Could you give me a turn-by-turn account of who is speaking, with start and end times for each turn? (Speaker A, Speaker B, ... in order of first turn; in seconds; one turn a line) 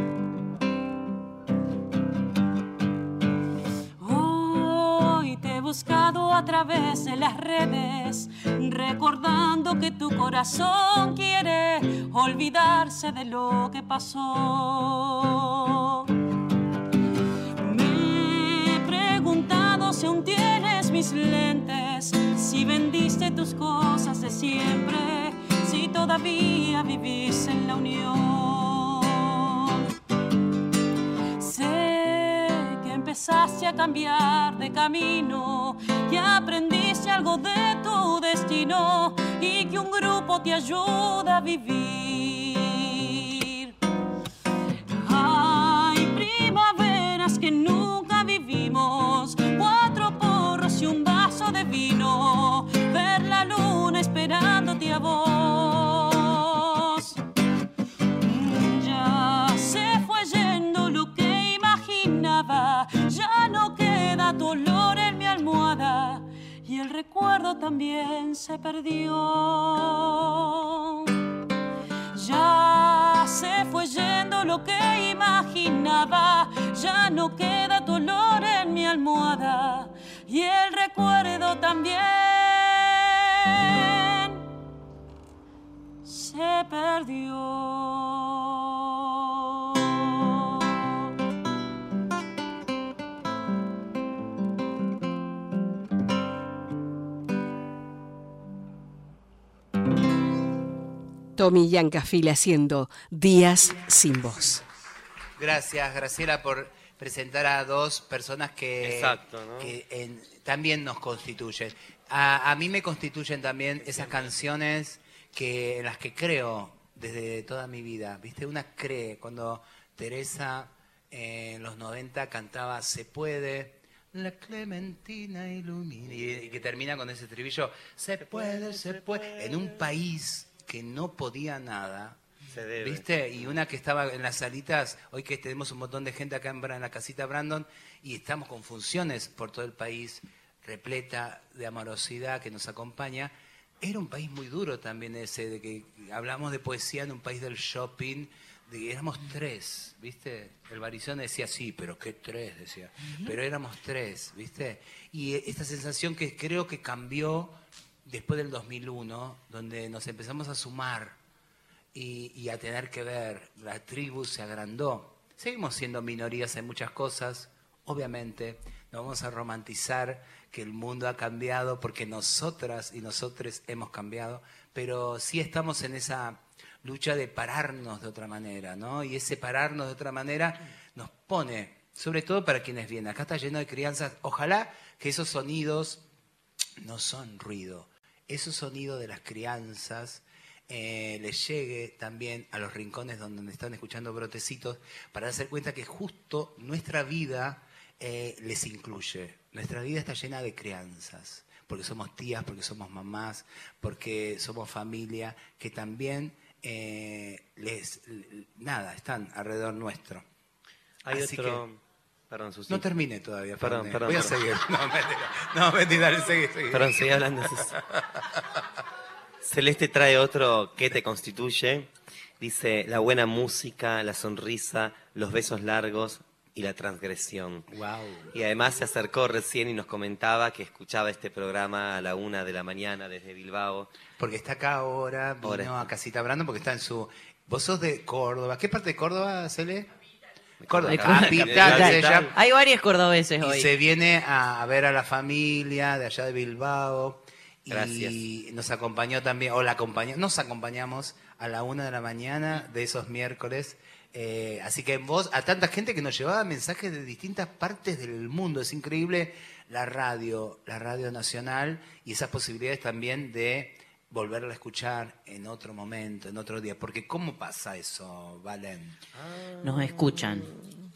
Speaker A: 4.0-16.1
Speaker A: 17.6-29.8
Speaker A: 31.4-43.7
Speaker A: 45.0-57.2
Speaker A: 58.2-71.2
Speaker A: 72.1-84.4
Speaker A: 86.0-90.6
Speaker B: 101.4-104.6
Speaker C: 105.4-132.2
Speaker D: 108.8-109.7
Speaker D: 113.9-114.2
Speaker D: 128.3-129.7
Speaker D: 132.5-133.0
Speaker C: 132.8-161.2
Speaker C: 161.9-186.0
Speaker C: 186.8-210.2
Speaker D: 211.0-212.9
Speaker C: 211.1-211.6
Speaker C: 212.7-217.0
Speaker D: 213.6-214.3
Speaker D: 216.7-217.8
Speaker C: 217.5-218.2
Speaker D: 219.4-227.7
Speaker C: 227.7-228.3
Speaker D: 228.3-233.9
Speaker C: 234.2-239.9
Speaker D: 235.4-235.9
Speaker D: 240.6-242.3
Speaker C: 240.7-242.3
Speaker E: 240.9-243.7
Speaker C: 243.4-269.0
Speaker D: 247.7-248.2
Speaker E: 269.6-270.5